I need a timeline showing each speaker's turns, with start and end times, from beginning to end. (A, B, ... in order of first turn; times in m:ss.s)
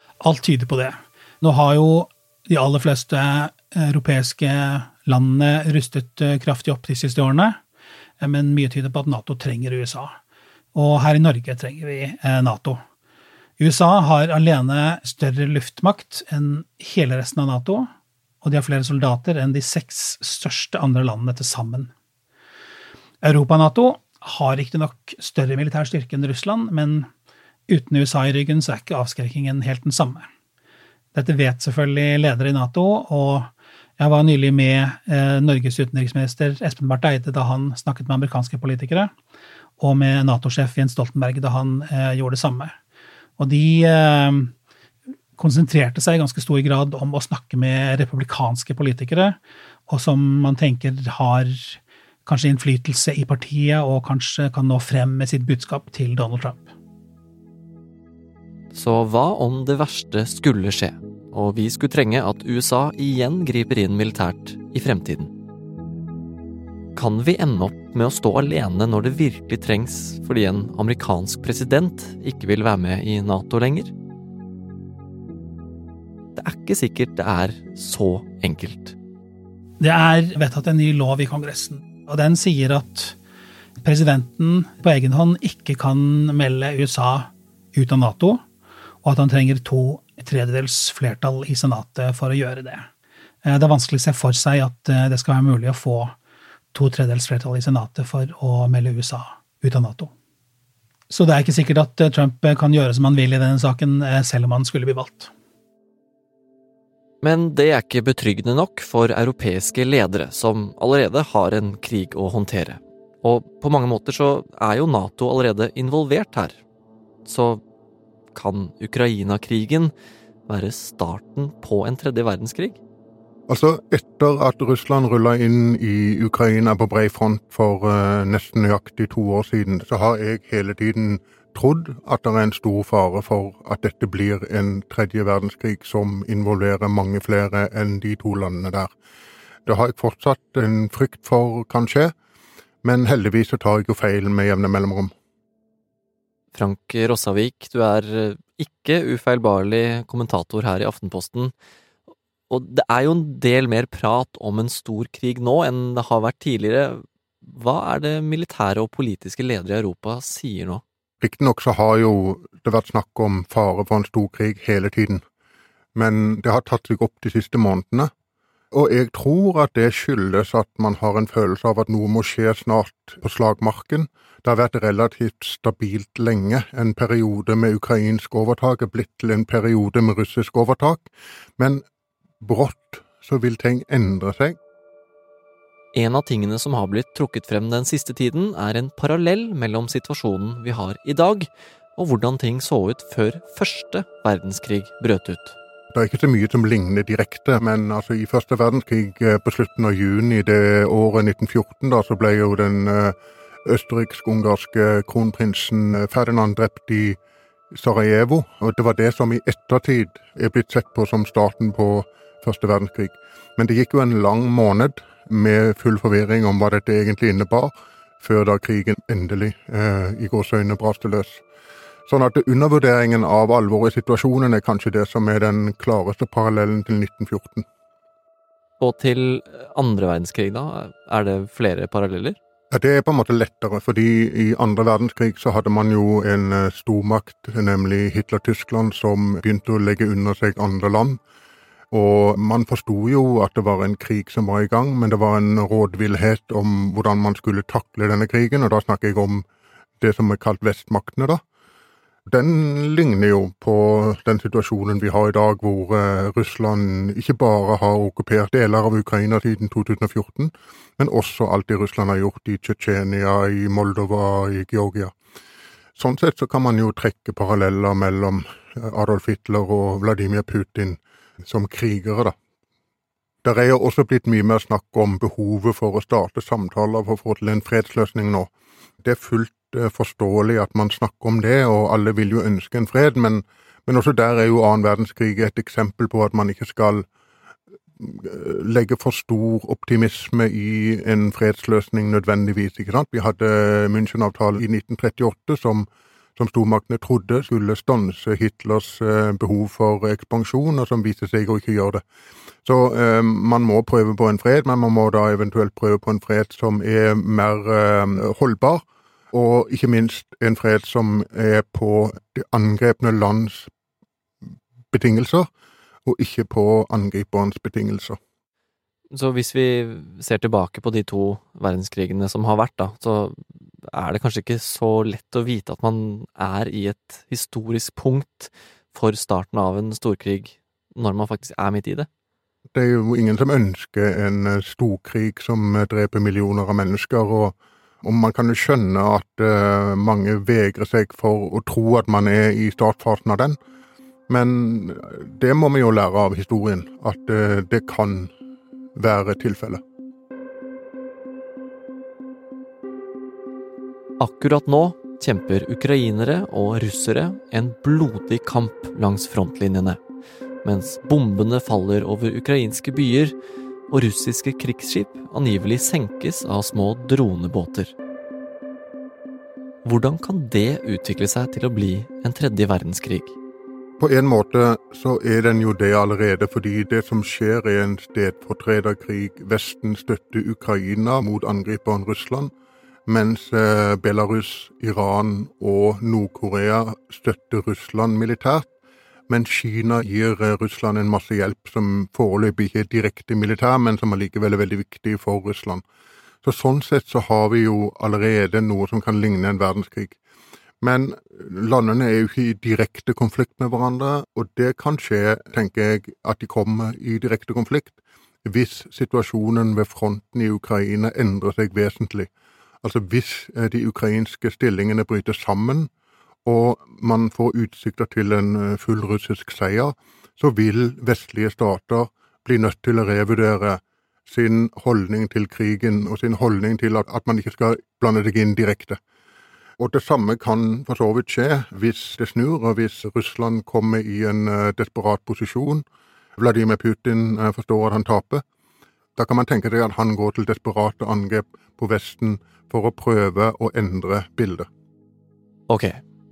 0:00.2-0:07.6 A
0:08.2-0:10.2 A
0:10.7-0:12.8 A
0:13.6-0:17.9 A
0:18.4-0:21.9 A
0:23.2-0:27.1 A
0:27.7-0:30.3 A
0:31.1-0:39.1 A
0:39.8-0:42.7 A
0:43.4-0:44.5 A
0:45.4-0:56.7 A
0:58.7-1:05.3 B
1:07.0-1:13.9 B
1:16.4-1:19.0 B
1:19.8-1:23.2 A
1:23.8-1:28.4 A
1:29.0-1:32.9 A
1:33.4-1:36.2 A
1:36.7-1:40.1 A
1:41.1-1:45.3 A
1:47.2-1:56.6 B
1:57.3-1:57.6 B
1:58.3-1:59.9 B
2:00.5-2:02.8 B
2:03.5-2:18.9 C
2:19.7-2:22.1 C
2:22.8-2:25.1 C
2:26.5-2:31.5 B
2:32.5-2:40.8 B
2:41.2-2:45.2 C
2:46.0-2:48.1 C
2:48.7-3:01.8 C
3:02.4-3:04.6 C
3:06.0-3:15.6 B
3:15.9-3:27.2 C
3:27.7-3:41.4 C
3:42.1-3:47.6 C
3:48.8-3:52.4 B
3:52.7-4:01.2 C
4:01.9-4:09.4 C
4:10.0-4:11.4 C
4:12.3-4:25.1 C
4:26.0-4:32.3 C
4:33.4-4:38.5 C
4:39.0-4:47.1 C
4:48.0-5:02.0 C
5:02.6-5:13.7 C
5:14.9-5:15.5 C
5:16.1-5:18.2 C
5:19.1-5:32.1 B
5:32.7-5:43.6 C
5:44.3-5:48.3 C
5:49.0-5:49.8 C
5:54.2-6:00.0 B
6:00.6-6:03.4 B
6:03.9-6:07.9 B
6:09.8-6:13.4 B
6:14.0-6:22.5 C
6:23.1-6:28.7 C
6:29.3-6:35.8 C
6:36.4-6:40.2 C
6:40.8-6:52.3 C
6:52.8-6:55.9 C
6:56.4-7:09.0 C
7:09.8-7:15.8 C
7:16.4-7:18.4 C
7:19.2-7:24.7 C
7:25.7-7:26.0 B